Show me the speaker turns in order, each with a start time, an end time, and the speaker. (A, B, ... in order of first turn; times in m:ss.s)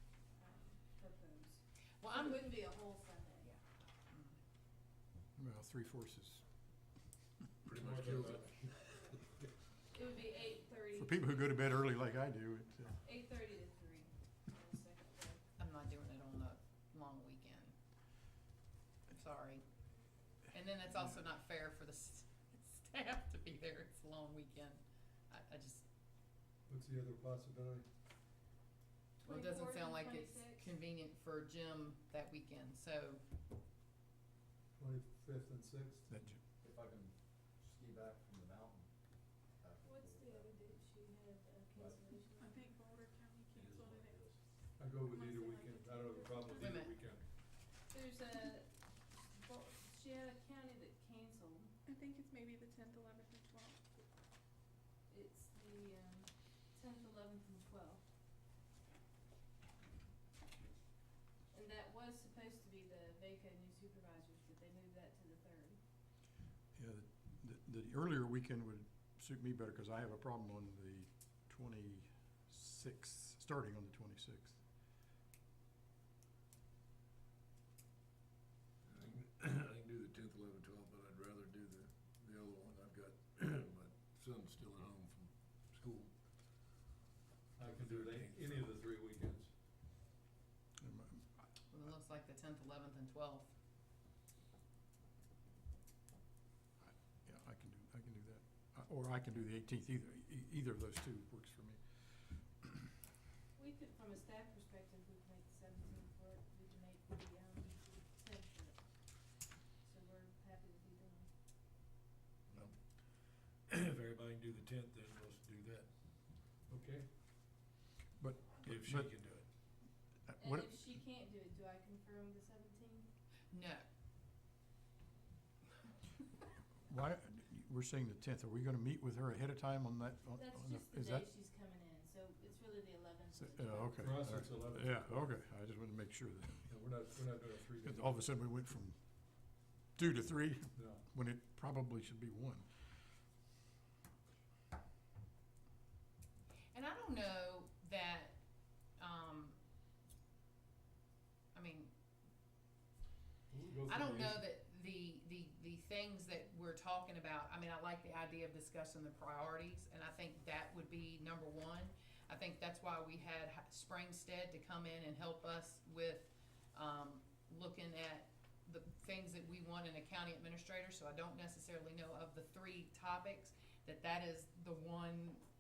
0:00.3-0:03.5 A
0:02.0-0:02.6 B
0:03.4-0:04.4 B
0:05.4-0:06.4 C
0:07.6-0:09.2 D
0:07.8-0:08.5 E
0:09.9-0:11.5 A
0:11.0-0:13.0 C
0:13.0-0:15.4 A
0:15.6-0:17.7 B
0:19.1-0:19.6 B
0:20.5-0:25.8 B
0:26.7-0:27.8 E
0:29.2-0:33.2 B
0:29.2-0:30.7 A
0:34.8-0:36.1 E
0:36.1-0:36.4 C
0:36.6-0:38.9 F
0:39.4-0:40.7 F
0:39.8-0:42.7 A
0:41.8-0:42.1 F
0:42.4-0:44.2 G
0:43.5-0:44.4 F
0:44.8-0:47.2 E
0:45.0-0:46.9 G
0:46.6-0:46.9 B
0:47.9-0:51.7 A
0:51.9-0:53.8 G
0:55.1-0:58.0 A
1:01.5-1:05.8 A
1:06.8-1:14.6 C
1:18.9-1:26.1 D
1:27.6-1:29.5 E
1:27.6-1:28.8 D
1:30.8-1:31.5 C
1:31.7-1:33.5 B
1:36.8-1:41.8 C
1:42.6-1:42.9 C
1:43.6-1:48.9 A
1:49.8-1:51.3 A
1:52.5-1:55.9 D
1:56.7-1:57.1 E
1:58.2-1:59.1 C
1:58.6-1:59.5 D
2:00.3-2:00.8 C
2:00.4-2:03.1 A
2:03.5-2:03.8 B
2:06.9-2:11.3 C
2:10.4-2:14.2 A
2:13.4-2:16.7 C
2:14.0-2:15.3 E
2:16.7-2:18.2 E
2:17.8-2:19.0 C
2:20.0-2:22.7 C
2:20.8-2:21.0 E
2:26.7-2:28.4 B
2:29.0-2:29.6 B
2:31.5-2:31.9 B
2:33.5-2:34.4 E
2:33.9-2:55.4 B